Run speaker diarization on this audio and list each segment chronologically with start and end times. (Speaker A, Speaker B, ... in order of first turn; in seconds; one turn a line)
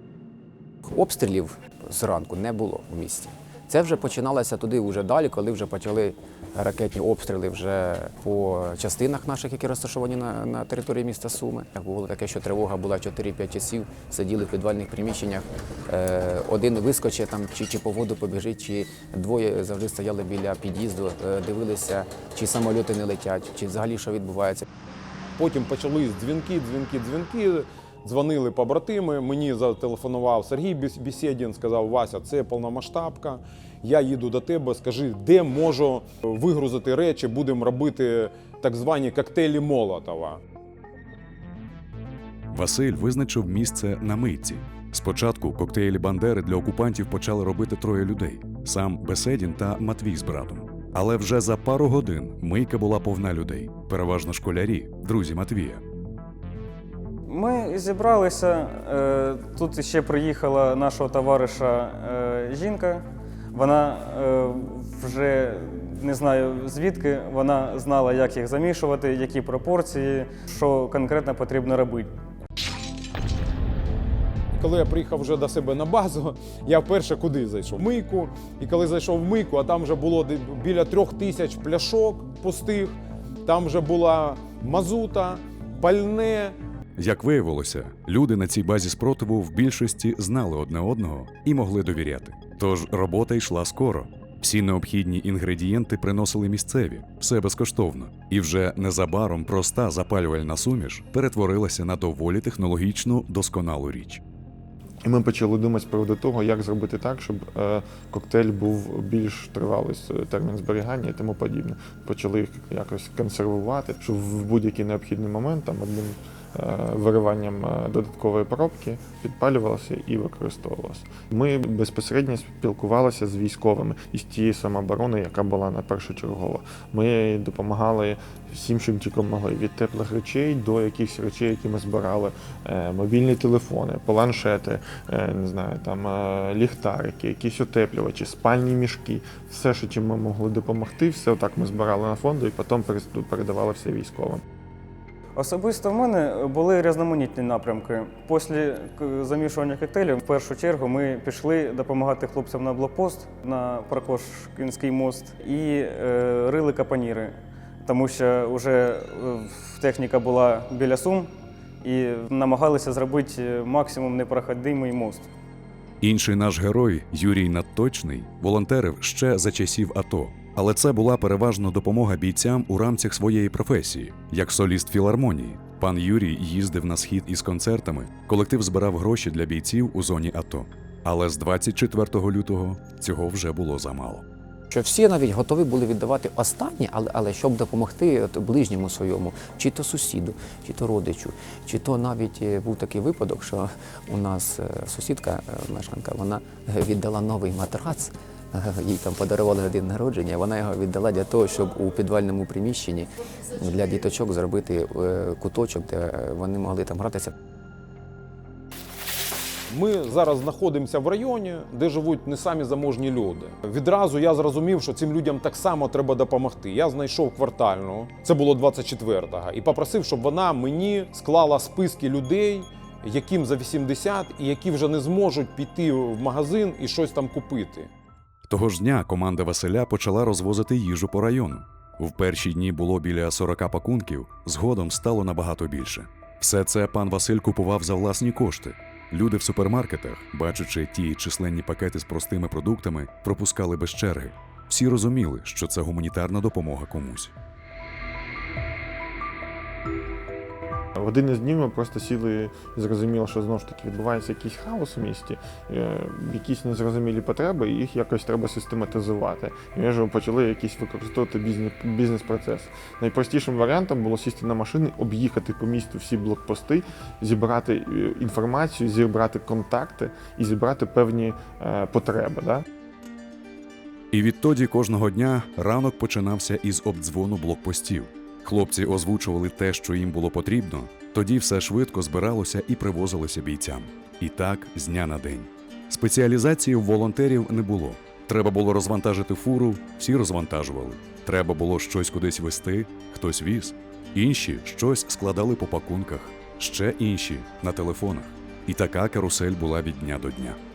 Speaker A: 0.8-24.6
Speaker B: 25.4-40.4
Speaker C: 42.5-55.8
Speaker D: 57.3-72.1
Speaker B: 74.5-86.6
Speaker C: 87.0-104.2
Speaker E: 105.0-144.4
Speaker D: 145.3-165.3
Speaker C: 166.0-184.2
Speaker A: 184.7-207.3
Speaker B: 209.7-227.9
Speaker C: 228.5-247.3
Speaker E: 251.0-272.6
Speaker C: 274.1-300.6